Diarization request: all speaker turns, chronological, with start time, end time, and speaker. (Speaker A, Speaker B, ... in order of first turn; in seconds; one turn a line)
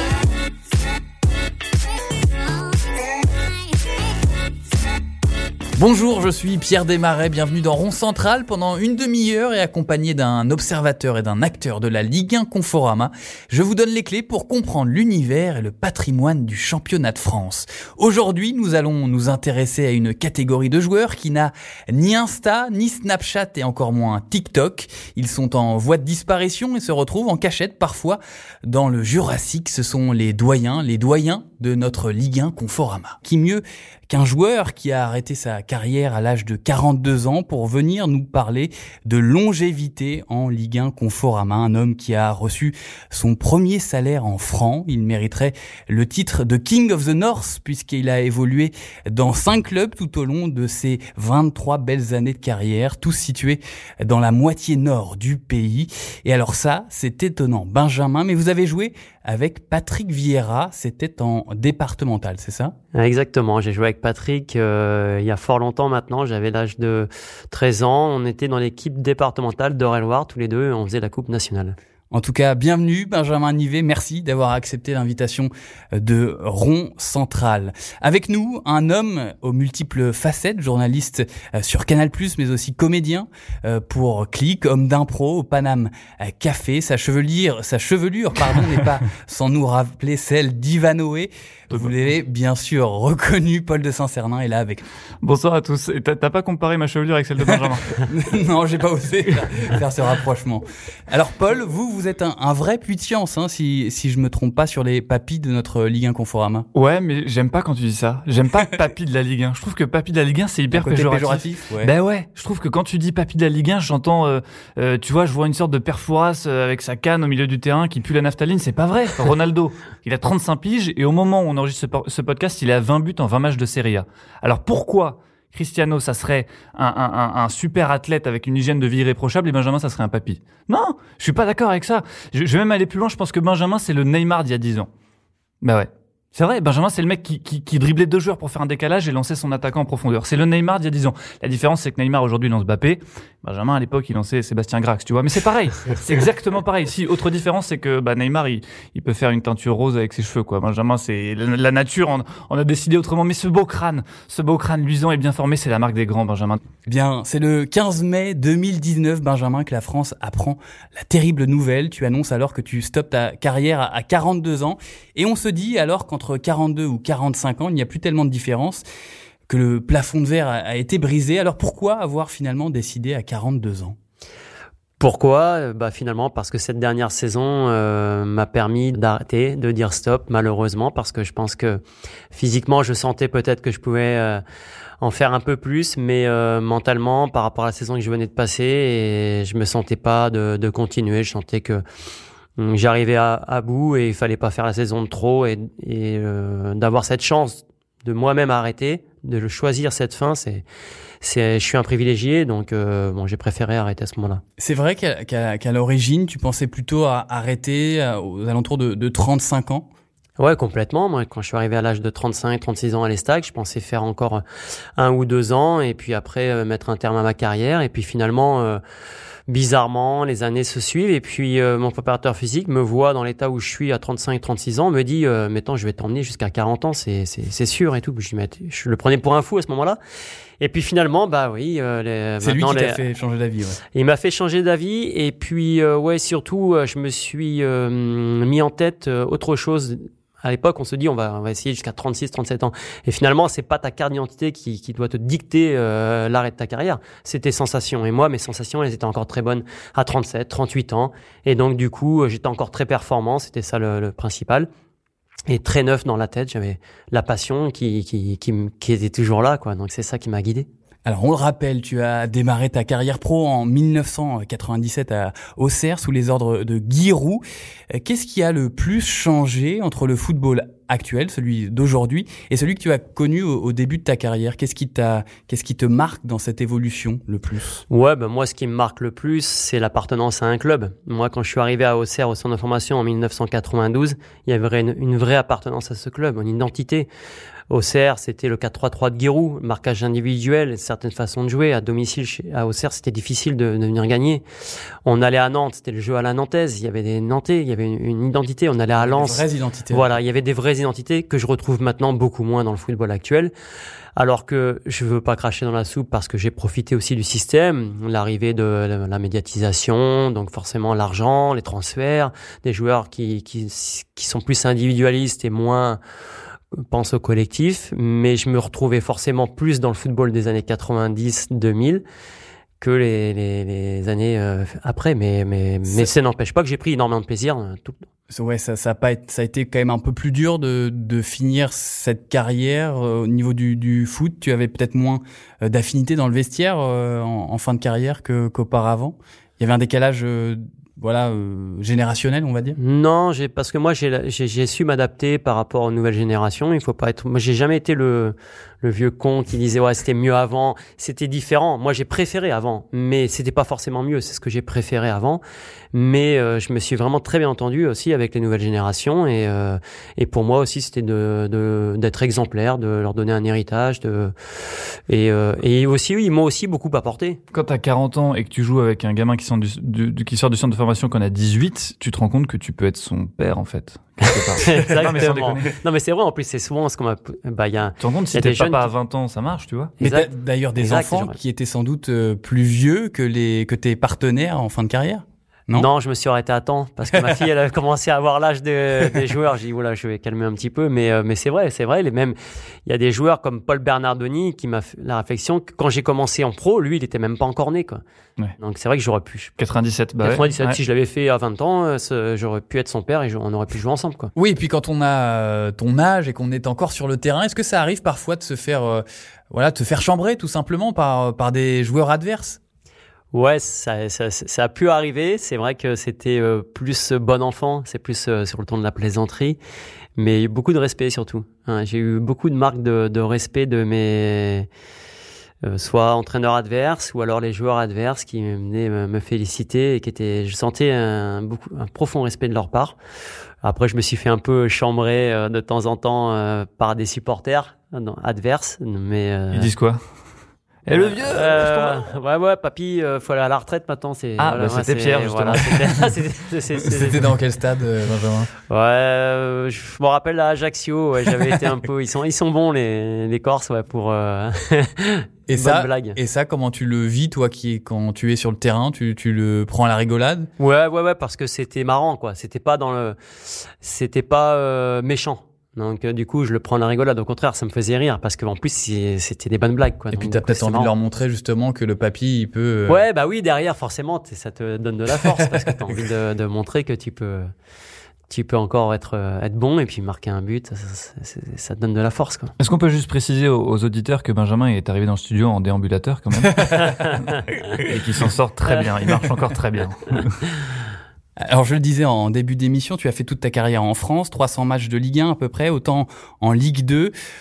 Speaker A: 5.8-62.8
Speaker B: 62.9-71.8
Speaker A: 72.1-94.8
Speaker C: 95.2-98.0
Speaker A: 97.5-106.7
Speaker C: 106.7-134.9
Speaker A: 110.7-111.9
Speaker C: 135.6-156.6
Speaker A: 156.9-168.8
Speaker A: 169.5-174.0
Speaker B: 175.0-181.8
Speaker B: 182.3-184.4
Speaker B: 185.0-191.8
Speaker B: 192.6-200.7
Speaker B: 201.2-204.4
Speaker A: 204.6-209.9
Speaker B: 210.4-214.4
Speaker B: 215.0-218.8
Speaker B: 219.5-230.0
Speaker B: 230.6-233.0
Speaker A: 232.4-233.8
Speaker B: 233.9-254.7
Speaker B: 255.5-260.7
Speaker A: 261.1-277.8
Speaker B: 277.9-287.1
Speaker B: 287.7-294.4
Speaker B: 295.1-303.5
Speaker A: 299.0-300.1
Speaker B: 304.2-316.0
Speaker B: 316.7-322.0
Speaker B: 322.8-328.1
Speaker A: 328.3-342.8
Speaker B: 342.8-355.4
Speaker B: 355.9-367.4
Speaker C: 367.5-375.7
Speaker B: 374.2-378.9
Speaker C: 378.0-379.9
Speaker B: 380.0-381.4
Speaker A: 380.0-385.9
Speaker B: 385.7-398.0
Speaker B: 398.6-399.5
Speaker C: 399.6-400.8
Speaker B: 400.2-404.3
Speaker A: 404.4-412.6
Speaker B: 413.3-419.6
Speaker B: 420.2-424.7
Speaker B: 425.6-433.0
Speaker B: 433.6-439.7
Speaker C: 439.5-440.0
Speaker C: 440.9-442.0
Speaker B: 440.9-447.2
Speaker C: 444.4-446.2
Speaker A: 446.9-448.5
Speaker B: 448.7-456.2
Speaker A: 455.5-460.5
Speaker B: 460.6-470.9
Speaker A: 470.1-473.0
Speaker B: 472.9-477.5
Speaker A: 475.4-475.7
Speaker B: 478.3-482.5
Speaker C: 482.6-490.4
Speaker A: 491.4-497.1